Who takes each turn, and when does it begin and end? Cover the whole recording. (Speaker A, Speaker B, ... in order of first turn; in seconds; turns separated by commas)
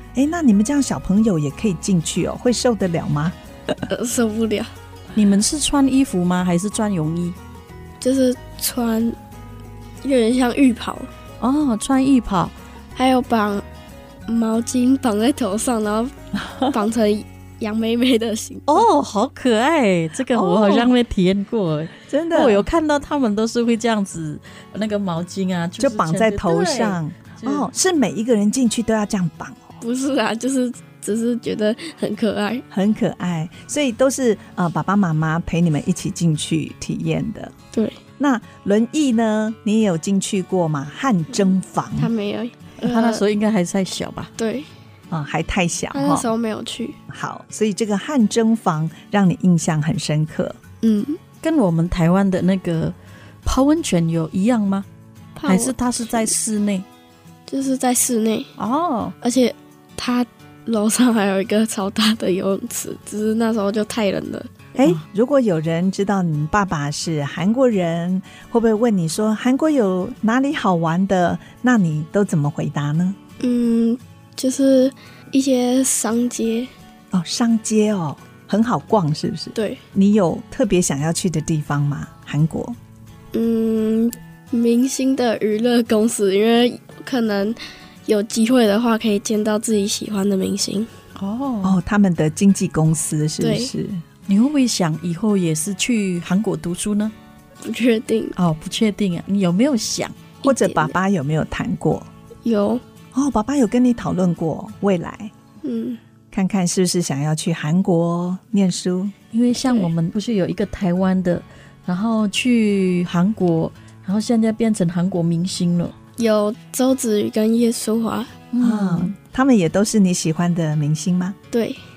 Speaker A: 0.1-3.8, Speaker B: 3.9-4.7, Speaker C: 5.1-7.3, Speaker B: 8.0-9.2, Speaker B: 10.0-11.1, Speaker C: 11.4-12.5, Speaker B: 12.9-13.6, Speaker B: 14.3-16.1, Speaker B: 16.6-18.9, Speaker C: 18.7-27.7, Speaker A: 20.3-20.9, Speaker A: 22.1-22.7, Speaker A: 25.8-29.7, Speaker B: 29.8-32.6, Speaker A: 32.7-37.5, Speaker B: 37.7-38.0, Speaker A: 38.2-42.1, Speaker B: 41.3-43.2, Speaker C: 42.8-44.3, Speaker B: 44.4-44.7, Speaker A: 45.1-46.3, Speaker B: 45.9-47.0, Speaker A: 47.1-50.6, Speaker B: 50.8-51.2, Speaker C: 51.4-54.9, Speaker B: 55.4-56.3, Speaker C: 55.5-56.8, Speaker B: 57.5-58.5, Speaker C: 58.6-59.1, Speaker B: 59.2-64.7, Speaker A: 64.8-73.2, Speaker B: 73.4-76.7, Speaker A: 77.1-82.8, Speaker B: 79.5-79.8, Speaker B: 83.3-90.9, Speaker C: 91.2-91.8, Speaker A: 91.6-94.0, Speaker B: 93.4-93.7, Speaker C: 94.3-97.1, Speaker B: 97.6-98.3, Speaker C: 98.3-100.2, Speaker B: 100.4-100.9, Speaker A: 100.4-102.1, Speaker B: 102.4-102.8, Speaker A: 103.1-105.3, Speaker B: 105.6-106.0, Speaker A: 106.3-109.1, Speaker C: 109.3-115.9, Speaker B: 116.2-118.3, Speaker C: 118.5-119.1, Speaker A: 118.6-121.4, Speaker B: 121.5-121.8